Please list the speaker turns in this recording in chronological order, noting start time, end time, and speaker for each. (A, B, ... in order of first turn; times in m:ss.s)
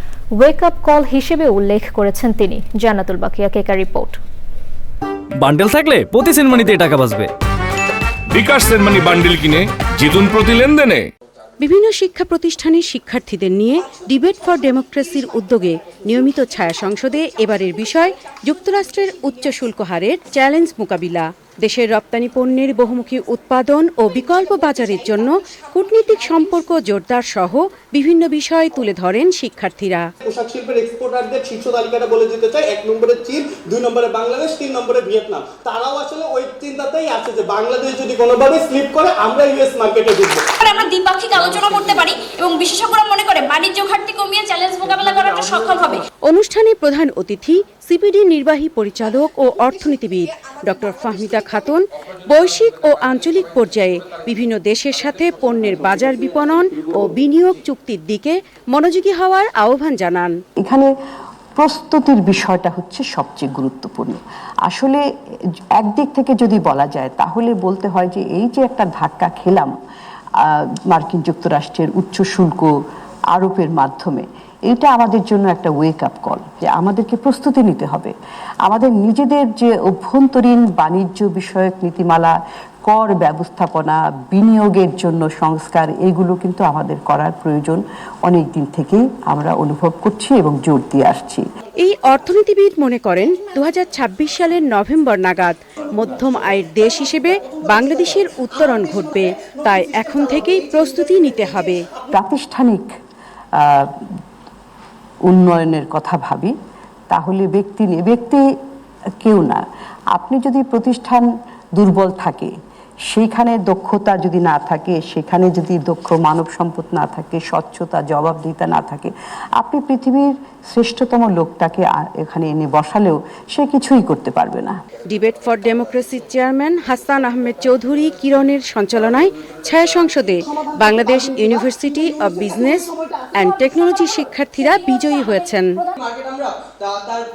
0:00.4-0:04.2 A
0:05.4-0:07.3 B
0:08.3-0:11.1 C
0:11.6-0:30.1 D
0:30.2-0:40.5 E
0:40.6-0:46.0 F
0:46.3-1:00.4 D
1:00.6-1:00.9 G
1:01.6-1:05.0 G
1:05.8-1:09.7 G
1:10.4-1:12.7 G
1:13.3-1:18.1 G
1:18.6-1:22.3 G
1:22.9-1:31.4 G
1:31.8-1:41.8 D
1:42.1-1:42.9 G
1:43.6-1:44.1 G
1:45.2-1:46.5 G
1:47.1-1:48.4 G
1:49.2-1:52.5 G
1:53.1-2:04.8 G
2:05.1-2:15.8 D
2:10.8-2:11.2 E
2:16.1-2:17.1 E